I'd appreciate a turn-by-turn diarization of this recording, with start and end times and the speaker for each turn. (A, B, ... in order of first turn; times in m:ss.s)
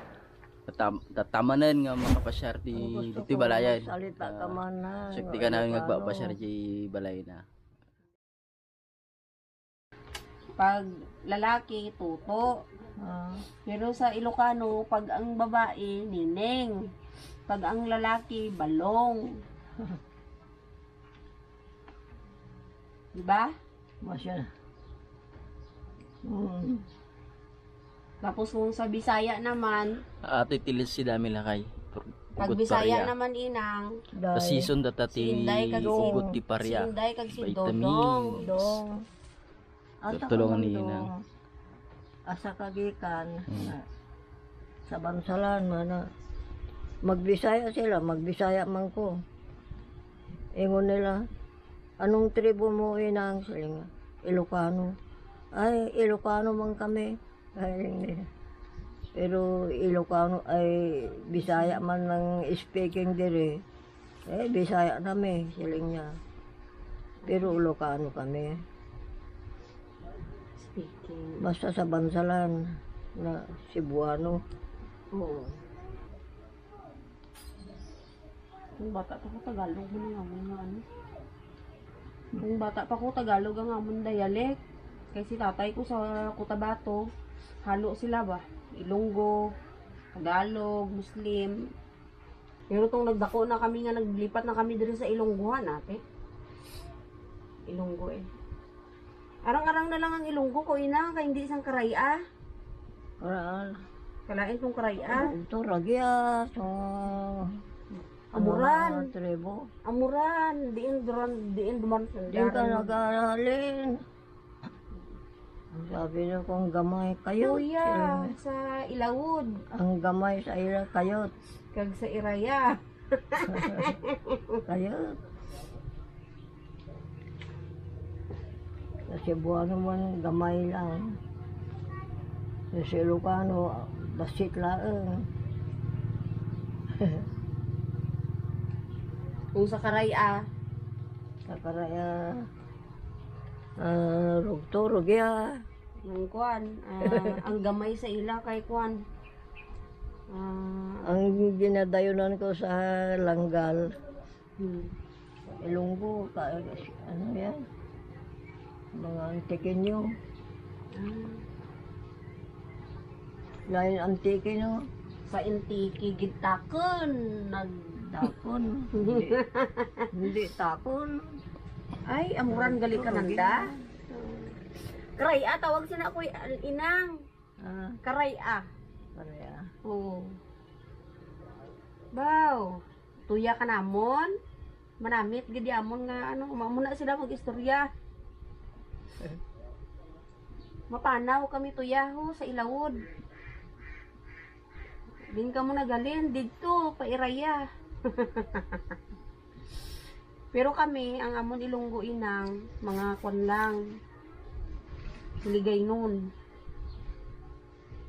0:00.7-0:04.6 A
0:02.7-0:06.4 B
0:05.1-0:07.4 A
0:10.6-0:12.5 C
0:13.0-0:13.4 B
0:13.6-0:16.8 C
0:17.5-0:19.2 C
0:23.1-0:23.5 C
0:24.0-0:24.5 B
0:26.3-0:26.8 B
0:28.2-0:29.9 C
0:30.2-0:33.1 A
0:32.4-0:33.9 C
0:34.1-0:34.7 B
0:34.3-0:38.8 A
0:35.1-0:38.4 C
0:35.7-0:36.3 B
0:38.4-0:39.0 B
0:40.0-0:41.1 B
0:40.1-0:41.1 A
0:42.3-0:43.8 B
0:44.9-0:46.0 B
0:47.0-0:49.1 B
0:50.6-0:51.2 B
0:52.0-0:54.9 B
0:55.6-0:58.3 B
0:59.2-1:03.6 B
1:01.4-1:01.8 C
1:04.3-1:06.1 B
1:07.2-1:07.6 C
1:07.3-1:08.5 B
1:10.6-1:11.4 C
1:11.4-1:12.5 B
1:13.2-1:14.4 B
1:15.1-1:15.5 C
1:18.8-1:20.8 C
1:22.4-1:24.6 C
1:25.1-1:27.0 C
1:27.6-1:29.4 C
1:30.2-1:31.6 C
1:32.7-1:36.0 C
1:37.7-1:38.2 C
1:39.4-1:42.2 C
1:43.2-1:43.7 B
1:44.3-1:45.3 C
1:45.0-1:47.4 B
1:48.3-1:49.6 B
1:48.3-1:49.1 C
1:49.9-1:52.9 C
1:52.3-1:54.0 B
1:55.8-1:58.3 B
1:57.4-1:59.6 C
1:59.8-2:01.3 B
2:01.7-2:04.6 C
2:03.5-2:03.9 B
2:04.7-2:05.0 B
2:09.1-2:11.0 B
2:12.7-2:15.2 B
2:19.5-2:20.4 C
2:21.5-2:22.1 B
2:23.8-2:25.4 B
2:26.0-2:29.0 C
2:30.3-2:31.1 C
2:31.0-2:33.8 B
2:34.6-2:34.9 C
2:35.6-2:37.5 B
2:39.0-2:40.0 B
2:40.9-2:41.4 C
2:43.7-2:44.7 B
2:45.3-2:48.3 C
2:48.1-2:49.4 B
2:49.0-2:50.1 C
2:50.1-2:51.1 B
2:52.1-2:54.5 C
2:52.5-2:53.7 B
2:55.2-2:57.2 C
2:57.6-2:58.0 B
2:58.0-2:58.6 C
2:59.2-2:59.6 B
2:59.9-3:00.4 C
3:02.1-3:02.7 C
3:03.2-3:04.3 C
3:05.0-3:07.9 C
3:10.9-3:13.0 C
3:15.3-3:19.0 C
3:20.5-3:23.8 C
3:25.4-3:26.2 C